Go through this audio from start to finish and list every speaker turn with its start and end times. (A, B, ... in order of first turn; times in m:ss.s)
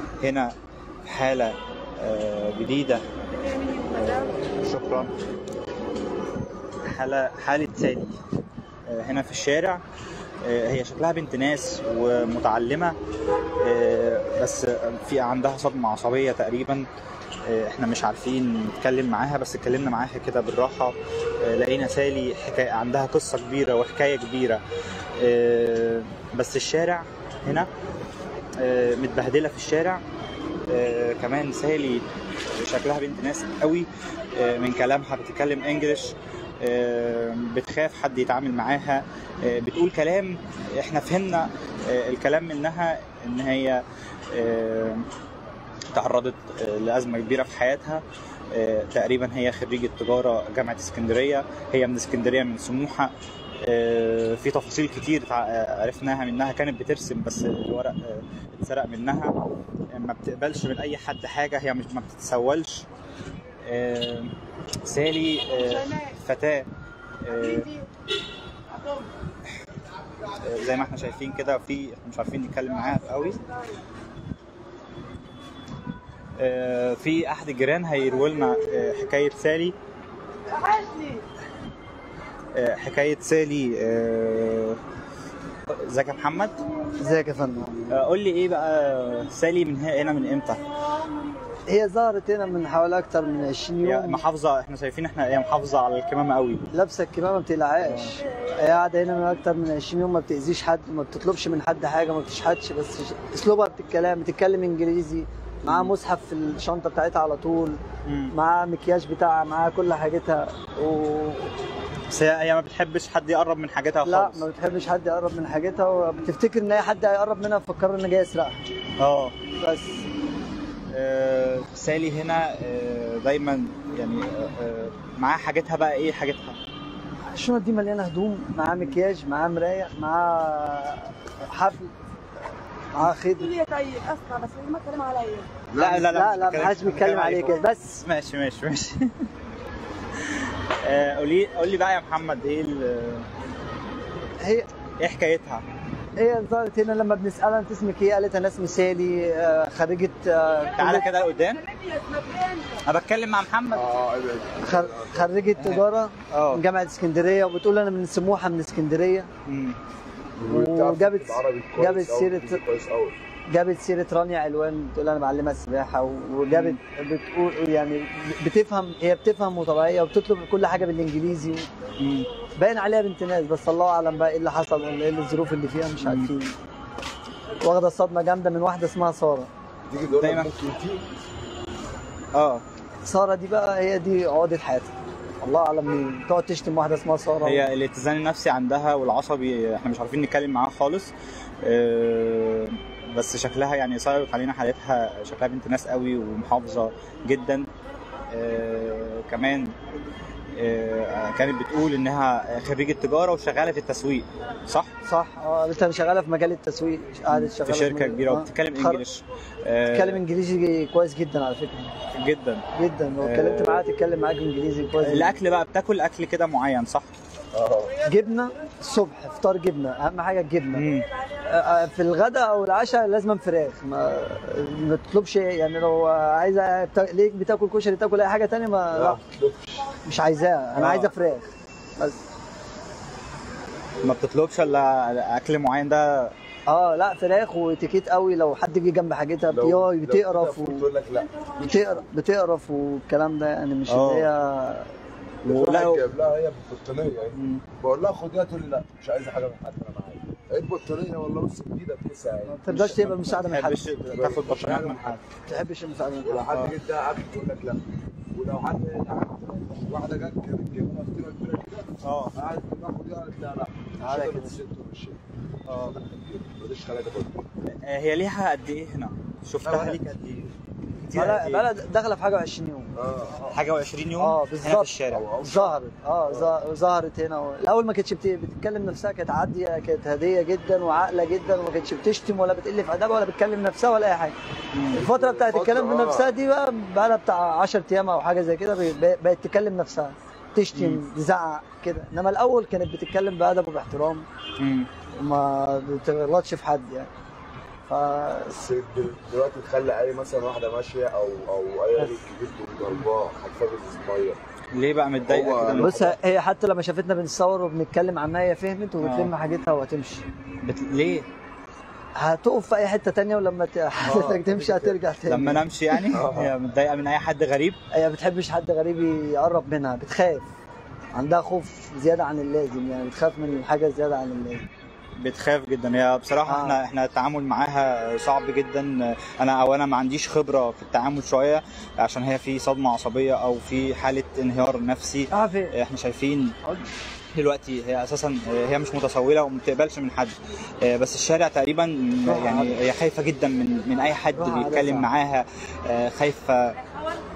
0:00.2-0:03.0 A
0:03.6-0:05.1 A
0:06.8-0:08.2 A
0:08.9-0:09.8 A
0:10.4-0:13.0 A
0:13.6-0:16.9 A
0:17.4-0:24.6 A
0:25.2-0:27.7 A
0:28.6-0:30.0 A
0:30.7-0:45.1 A
0:45.9-0:59.3 A
0:59.9-1:02.9 A
1:03.6-1:06.7 A
1:07.2-1:07.7 A
1:10.3-1:13.4 A
1:16.4-1:19.8 A
1:22.5-1:24.8 A
1:25.7-1:26.6 A
1:27.0-1:27.8 B
1:27.9-1:30.6 A
1:31.7-1:34.2 B
1:33.8-1:36.6 A
1:36.7-1:47.8 B
1:37.8-1:38.2 A
1:45.7-1:45.9 A
1:48.0-1:48.4 A
1:48.3-1:51.5 B
1:52.1-1:54.4 A
1:54.0-1:58.6 B
1:59.0-1:59.4 A
1:59.6-2:00.0 B
2:00.9-2:06.6 A
2:07.3-2:11.9 B
2:12.9-2:13.6 B
2:13.6-2:15.6 C
2:15.7-2:19.2 A
2:15.8-2:18.0 B
2:20.1-2:23.3 A
2:24.4-2:24.7 B
2:25.0-2:25.6 A
2:26.2-2:31.1 B
2:30.8-2:31.7 A
2:32.0-2:32.5 C
2:32.7-2:33.9 A
2:33.7-2:35.5 D
2:34.6-2:39.3 B
2:35.6-2:36.6 A
2:39.4-2:39.8 A
2:40.4-2:43.2 D
2:40.5-2:42.6 B
2:43.5-2:51.7 B
2:46.5-2:46.8 A
2:52.0-2:52.3 A
2:52.6-2:56.6 B
2:56.0-2:56.3 A
2:57.6-2:59.5 B
2:59.9-3:01.1 D
3:00.1-3:00.5 A
3:02.3-3:02.6 A
3:03.0-3:07.7 B
3:07.4-3:17.7 A
3:18.3-3:19.8 A
3:20.5-3:24.9 A
3:25.1-3:29.0 B
3:27.3-3:30.2 A
3:29.9-3:32.0 B
3:32.1-3:32.6 A
3:32.8-3:35.4 B
3:33.2-3:33.8 A
3:35.0-3:37.1 A
3:37.5-3:38.0 D
3:38.0-3:40.9 B
3:40.7-3:41.1 A
3:41.4-3:49.2 B
3:48.9-3:50.0 D
3:50.0-3:52.2 B
3:50.8-3:51.1 A
3:54.0-3:56.3 A
3:56.7-4:00.8 B
3:59.5-4:02.0 D
4:01.6-4:04.9 B
4:03.9-4:04.3 A
4:05.4-4:12.6 D
4:05.4-4:06.0 A
4:07.4-4:07.6 A
4:12.5-4:13.9 B
4:12.7-4:15.2 A
4:14.0-4:15.2 D
4:15.4-4:16.6 B
4:16.2-4:27.4 D
4:22.0-4:22.4 A
4:24.0-4:24.6 B
4:25.7-4:26.0 A
4:27.7-4:31.7 A
4:29.6-4:30.0 B
4:31.1-4:33.5 B
4:33.0-4:33.4 D
4:33.5-4:35.2 A
4:34.2-4:44.4 B
4:35.1-4:36.6 D
4:44.7-4:45.0 A
4:44.9-4:54.3 B
4:45.0-4:46.4 D
4:50.7-4:51.0 A
4:54.6-4:54.9 A
4:55.2-4:57.1 B
4:57.9-4:58.6 B
4:58.5-5:04.4 D
5:04.7-5:06.1 A
5:05.2-5:06.2 D
5:05.8-5:10.2 B
5:09.0-5:09.3 A
5:10.6-5:11.3 A
5:12.2-5:16.2 B
5:14.0-5:15.0 D
5:15.3-5:17.8 A
5:16.1-5:16.5 D
5:17.9-5:20.5 B
5:21.2-5:24.7 B
5:25.2-5:36.6 A
5:26.5-5:26.8 B
5:35.3-5:35.8 B
5:37.3-5:46.8 A
5:42.2-5:42.8 B
5:44.4-5:45.1 B